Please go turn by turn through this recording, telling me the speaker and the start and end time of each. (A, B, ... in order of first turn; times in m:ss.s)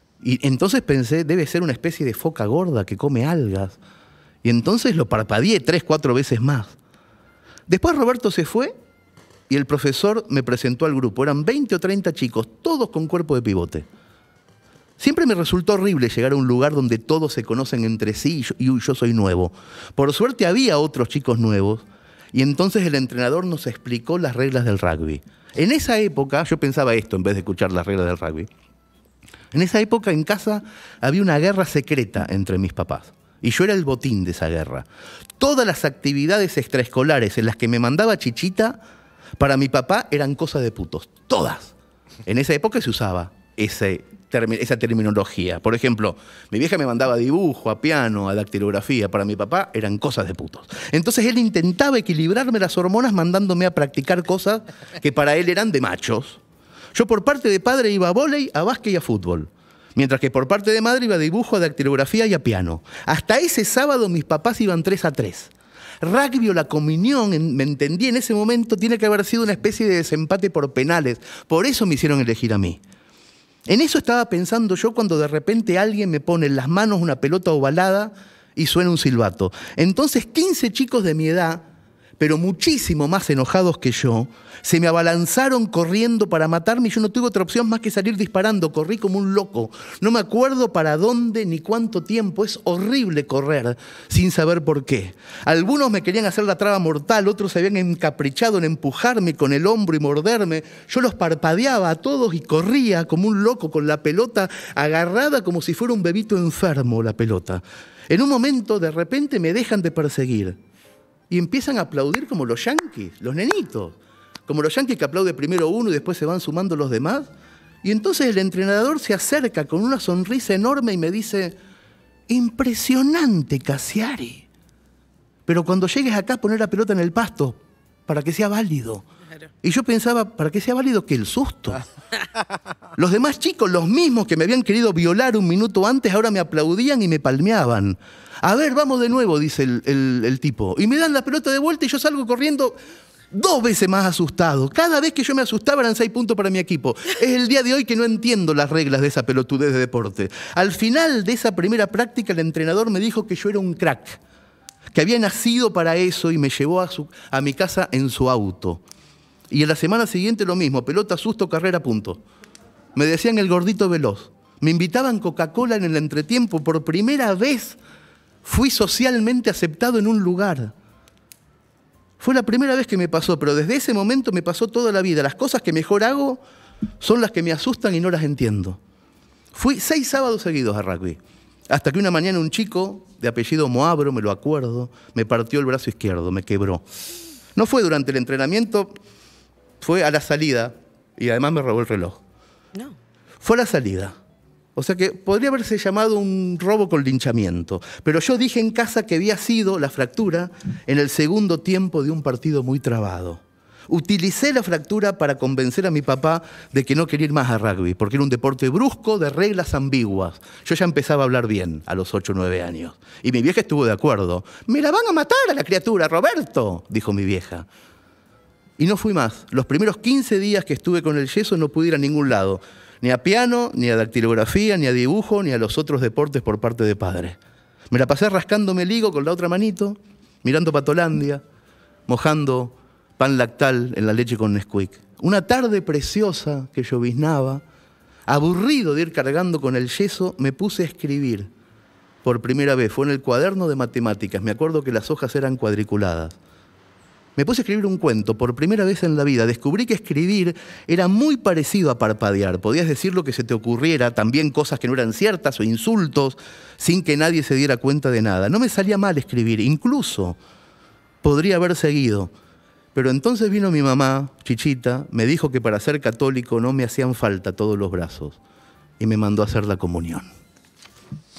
0:00.2-0:03.8 A
0:04.4-0:06.8 A
0:07.7-0:08.8 A
0:09.5-0:13.9 A
0:15.0-0:28.5 A
0:29.5-0:34.9 A
0:35.4-0:38.8 A
0:39.4-0:41.7 A
0:42.2-0:56.4 A
0:56.9-1:12.8 A
1:13.7-1:21.7 A
1:22.2-1:50.6 A
1:51.3-1:57.3 A
1:57.8-2:01.6 A
2:02.3-2:04.5 A
2:05.5-2:09.1 A
2:09.6-2:11.8 A
2:13.0-2:22.8 A
2:23.3-2:34.2 A
2:34.9-2:38.8 A
2:39.5-2:42.2 A
2:43.0-2:47.8 A
2:48.4-2:50.7 A
2:52.2-2:56.4 A
2:57.0-2:58.8 A
2:59.5-3:06.8 A
3:07.6-3:08.9 A
3:09.8-3:12.2 A
3:13.4-3:14.2 A
3:14.8-3:37.7 A
3:38.8-3:47.4 A
3:47.9-3:51.4 A
3:52.1-3:57.6 A
3:58.3-4:01.5 A
4:02.2-4:06.4 A
4:07.4-4:20.4 A
4:21.2-4:22.3 A
4:23.0-4:28.4 A
4:29.0-4:30.3 A